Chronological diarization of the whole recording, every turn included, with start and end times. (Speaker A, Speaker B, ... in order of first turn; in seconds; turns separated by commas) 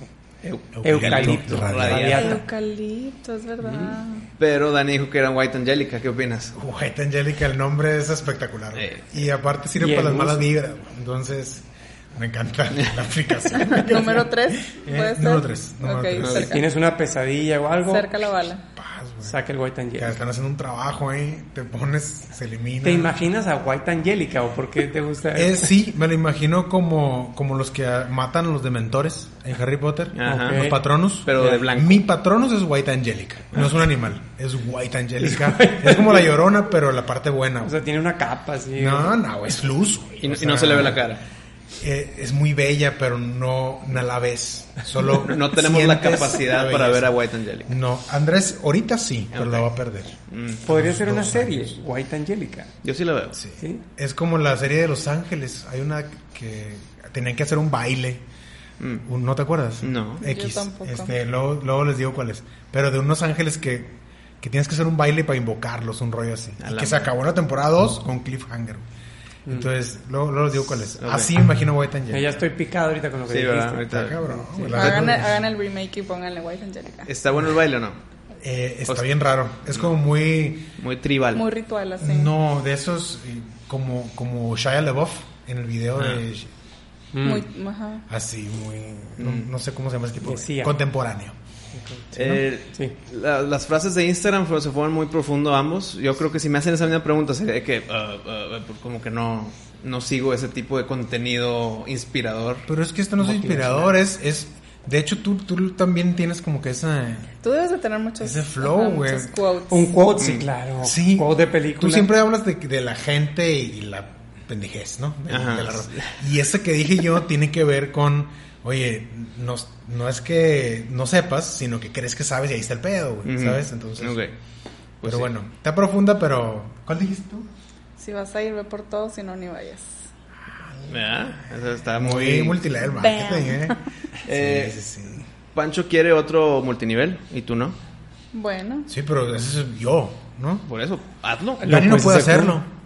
Speaker A: 0.4-2.4, Speaker B: 0.7-2.3, Speaker C: 0.8-2.4, Speaker D: 2.2-4.2, Speaker C: 3.6-4.0, Speaker A: 4.4-6.5, Speaker B: 6.5-16.5, Speaker A: 8.7-9.1, Speaker C: 9.8-10.5, Speaker D: 13.6-16.7, Speaker A: 16.2-16.4, Speaker C: 16.2-18.1, Speaker D: 17.8-18.6, Speaker B: 18.7-19.4, Speaker C: 19.2-20.1, Speaker B: 20.0-23.1, Speaker C: 22.8-25.7, Speaker B: 25.3-37.8, Speaker A: 30.1-30.7, Speaker C: 30.2-30.8, Speaker A: 31.2-32.1, Speaker C: 31.4-31.6, Speaker C: 35.2-36.3, Speaker C: 37.6-39.2, Speaker B: 38.8-41.1, Speaker A: 40.2-41.2, Speaker B: 41.8-47.1, Speaker A: 45.1-47.7, Speaker B: 47.7-51.7, Speaker A: 49.3-49.7, Speaker A: 50.3-50.6, Speaker C: 50.6-52.7, Speaker A: 52.8-53.4, Speaker B: 53.3-58.2, Speaker A: 58.8-59.0, Speaker B: 59.0-68.8, Speaker A: 59.8-60.2, Speaker D: 60.2-61.1, Speaker A: 66.6-67.1, Speaker B: 69.5-72.4, Speaker A: 70.9-71.3, Speaker C: 72.1-75.2, Speaker A: 73.3-74.2, Speaker B: 73.9-75.4, Speaker D: 74.7-77.1, Speaker A: 77.1-78.0, Speaker B: 78.4-80.7, Speaker A: 80.8-81.5, Speaker D: 81.3-82.3, Speaker B: 82.0-86.5, Speaker A: 86.0-86.2, Speaker C: 87.1-87.5, Speaker D: 87.2-88.0, Speaker B: 88.1-91.3, Speaker A: 89.2-89.5, Speaker C: 90.2-90.8, Speaker C: 91.8-92.0, Speaker B: 92.1-92.4, Speaker A: 92.1-102.7, Speaker B: 102.7-107.3, Speaker C: 103.2-104.0, Speaker D: 107.4-109.9, Speaker B: 108.2-109.3, Speaker C: 109.7-112.1, Speaker A: 110.2-110.5, Speaker B: 110.2-124.2, Speaker A: 115.3-116.2, Speaker A: 123.2-124.3, Speaker A: 125.0-125.3, Speaker B: 125.0-127.5, Speaker D: 128.0-130.0, Speaker B: 130.8-135.2, Speaker A: 130.9-132.7, Speaker D: 133.0-133.8, Speaker A: 134.2-134.8, Speaker A: 135.5-137.8, Speaker D: 138.3-138.9, Speaker B: 138.9-140.7, Speaker A: 140.7-141.7, Speaker B: 141.6-142.7, Speaker C: 141.6-142.6